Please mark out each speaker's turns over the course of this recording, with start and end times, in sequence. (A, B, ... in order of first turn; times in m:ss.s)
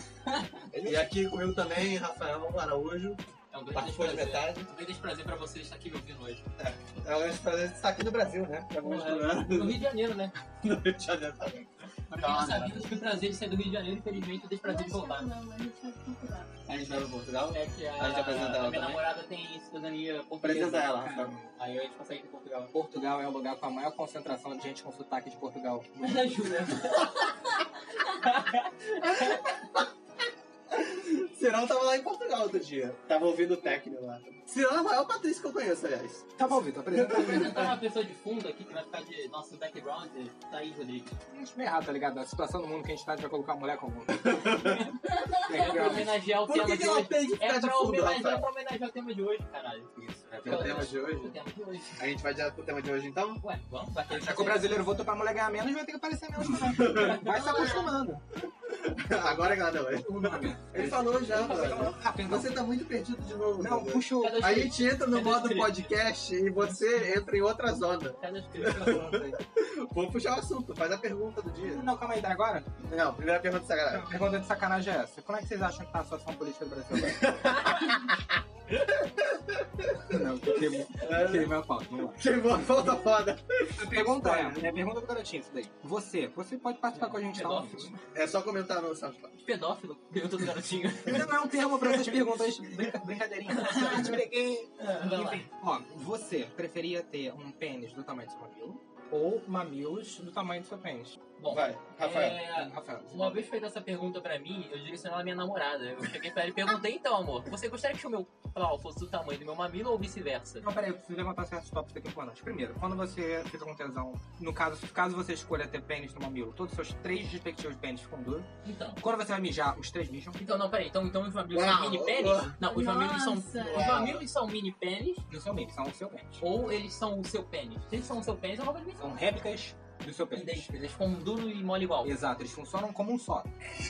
0:00.7-0:01.1 A
0:00.8-0:03.2 B
0:03.5-0:06.4 C
0:03.7-0:04.7 B
0:06.6-0:09.8 B
0:08.8-0:10.3 C
0:10.6-0:12.9 B
0:12.1-0:15.3 C
0:14.1-0:16.6 D
0:16.7-0:19.0 B
0:16.8-0:22.7 C
0:20.4-0:21.3 B
0:21.0-0:21.5 A
0:22.7-0:26.5 A
0:26.0-0:27.4 C
0:28.0-0:29.6 C
0:29.0-0:29.9 B
0:30.7-0:36.3 B
0:36.4-0:37.8 A
0:36.9-0:37.7 B
0:37.1-0:41.1 C
0:41.3-0:46.0 A
0:44.2-0:44.9 B
0:45.5-0:49.9 C
0:46.0-0:48.5 B
0:50.0-0:50.9 A
0:50.4-0:51.4 B
0:50.4-0:52.0 C
0:52.0-0:53.4 B
0:53.4-0:54.7 C
0:54.1-0:58.2 A
0:56.5-0:57.7 B
0:56.8-0:57.9 C
0:58.7-1:11.9 B
0:59.9-1:02.6 A
1:01.3-1:01.9 C
1:03.6-1:04.7 A
1:04.2-1:06.0 C
1:08.2-1:09.2 C
1:08.7-1:09.4 A
1:11.6-1:12.7 A
1:12.8-1:14.1 B
1:13.9-1:17.4 A
1:17.0-1:18.1 B
1:19.0-1:21.6 B
1:20.0-1:22.3 A
1:22.1-1:24.7 B
1:23.8-1:28.0 A
1:26.9-1:28.0 C
1:28.1-1:29.3 B
1:29.4-1:32.9 C
1:31.1-1:41.2 A
1:33.5-1:34.2 C
1:34.8-1:35.4 C
1:41.4-1:50.7 C
1:41.5-1:42.4 B
1:42.5-1:43.4 A
1:50.6-2:00.4 A
1:58.6-1:59.0 C
2:00.4-2:05.2 C
2:01.5-2:02.6 B
2:02.6-2:04.0 D
2:03.6-2:04.2 B
2:05.3-2:06.4 A
2:06.4-2:09.1 C
2:09.0-2:10.7 A
2:10.3-2:12.1 C
2:12.0-2:13.5 A